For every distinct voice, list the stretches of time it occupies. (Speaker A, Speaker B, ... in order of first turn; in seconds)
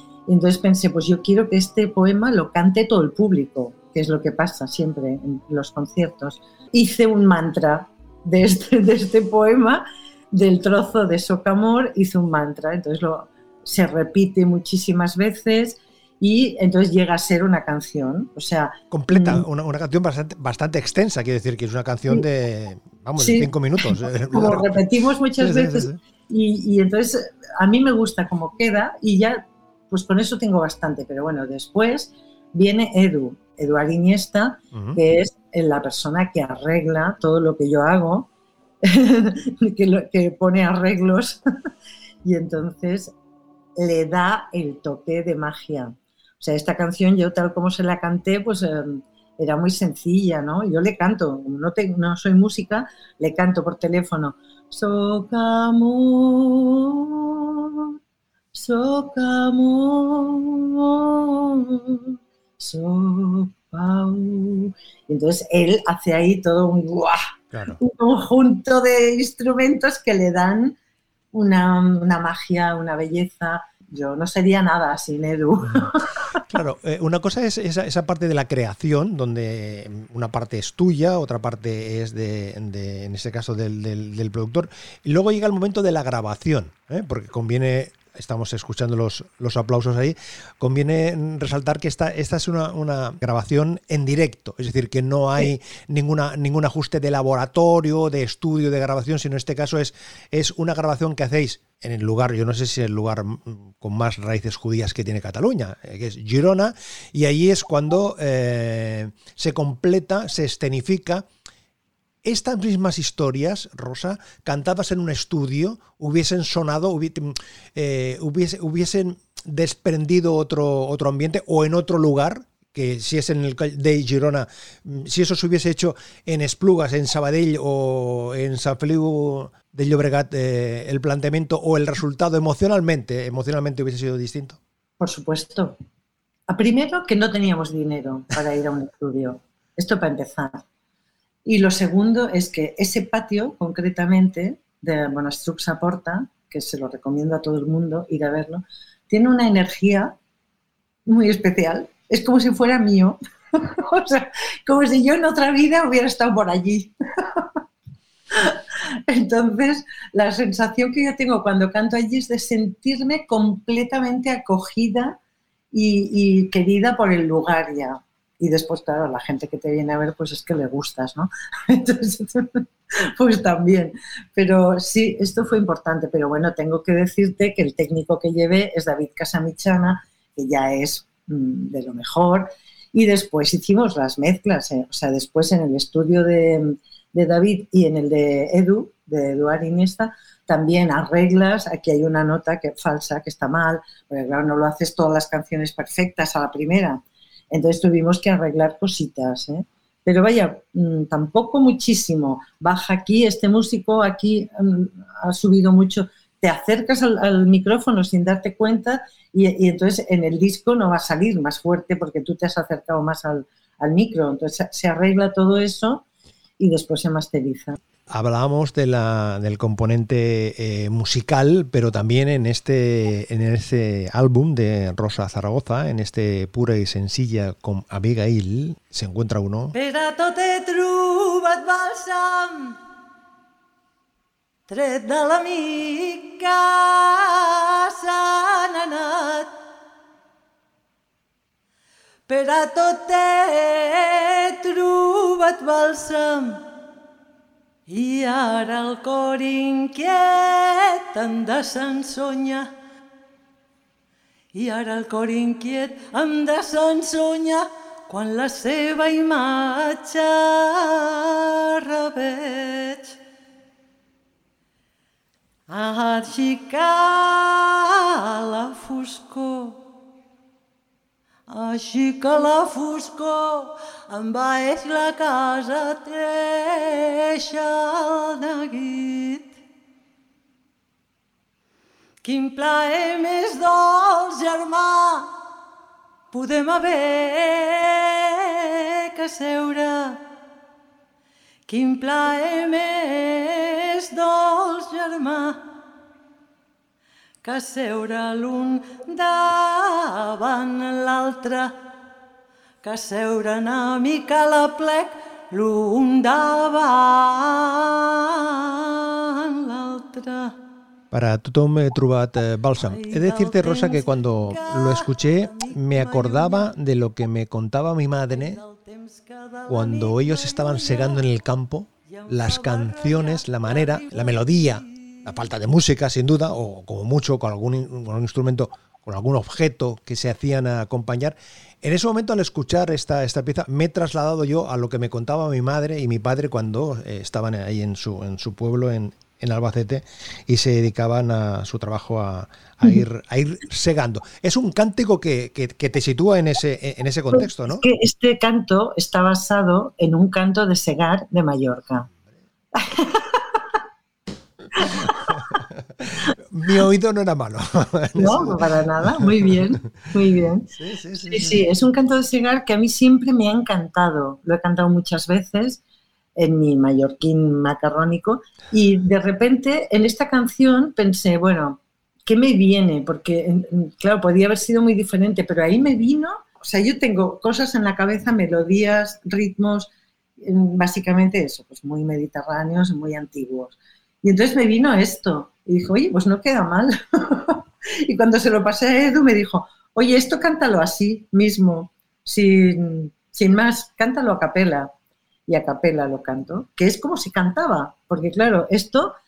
Speaker A: 0.3-19.4, 23.2-38.3, 38.8-41.4, 42.2-43.1, 43.8-57.9, 58.5-67.2, 67.8-70.8, 71.3-76.4, 135.0-135.8, 136.5-140.6, 141.4-150.1, 151.1-157.5, 158.3-165.2, 165.7-172.6, 173.2-216.1, 216.6-217.8, 347.3-352.1, 352.8-353.6, 354.8-355.2, 358.1-365.8, 366.4-394.9, 395.5-399.1
Speaker B: 18.9-24.9, 25.4-26.0, 67.5-67.8, 76.5-111.3, 112.2-134.6, 218.1-229.8, 311.1-318.6, 319.7-347.9, 354.9-359.5, 360.7-361.6
Speaker C: 229.7-232.8, 234.7-239.5, 242.3-246.6, 247.9-252.7, 254.5-263.2, 265.7-269.8, 271.5-279.6, 282.2-285.3, 286.3-290.2, 291.7-295.6, 297.4-301.8, 302.8-310.6, 312.8-316.7, 318.4-321.2, 322.1-324.9